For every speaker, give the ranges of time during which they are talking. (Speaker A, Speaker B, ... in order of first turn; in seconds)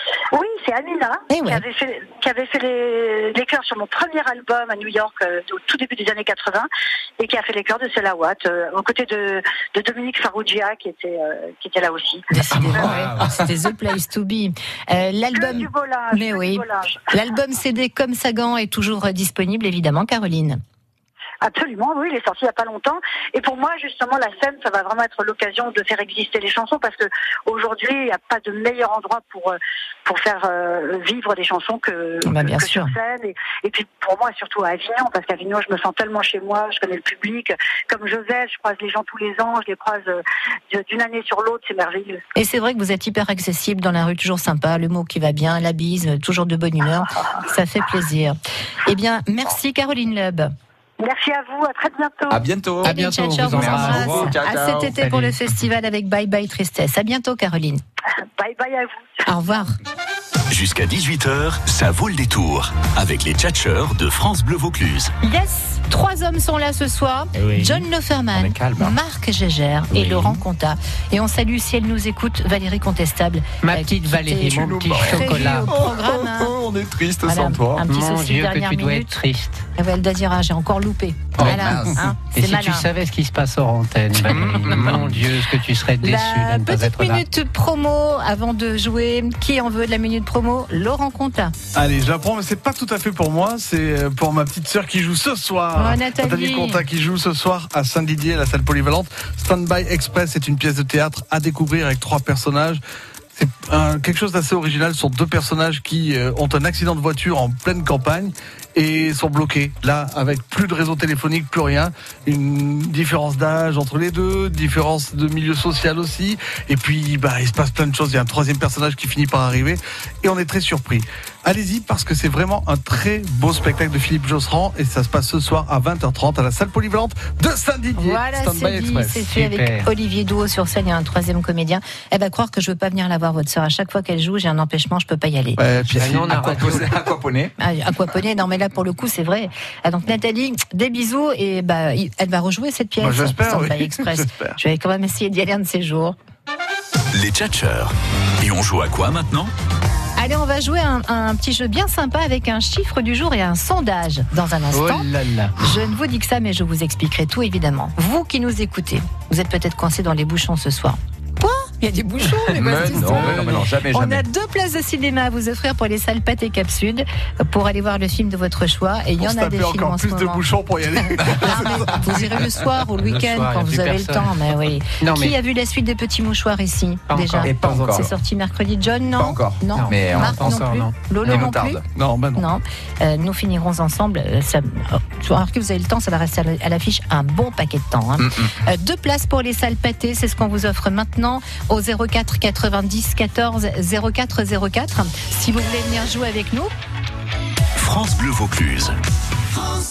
Speaker A: 0.3-12.9, 15.3-17.0, 21.4-42.2, 51.0-52.4, 58.4-59.2
Speaker B: 1.3-1.6, 12.3-20.6, 32.2-32.9, 42.3-50.5, 52.8-57.8, 59.2-59.7, 65.2-76.5, 77.2-79.2, 79.8-82.8, 84.3-85.0, 86.0-91.5, 95.8-96.8, 128.0-135.6, 137.6-146.2, 150.2-170.4, 171.0-181.8, 182.3-196.7
Speaker C: 12.7-13.2, 52.8-54.4, 54.9-55.4, 73.6-75.7, 77.9-79.6, 81.4-87.2, 129.3-129.9, 135.9-136.9, 154.7-155.5, 162.9-163.7, 173.0-174.3, 175.0-175.4, 177.1-178.1, 179.7-180.9
Speaker D: 52.3-55.0, 67.4-67.8, 68.3-69.0, 69.9-70.4, 74.7-77.8, 81.4-82.0, 84.2-85.2, 135.9-137.5, 162.5-164.2, 177.4-178.1, 179.2-180.6, 181.2-181.8, 188.2-188.5
Speaker E: 60.5-65.1, 147.1-149.5, 197.8-198.9
Speaker F: 91.7-102.8, 103.3-129.3, 135.6-136.3, 143.0-144.6, 169.2-172.5, 181.9-182.4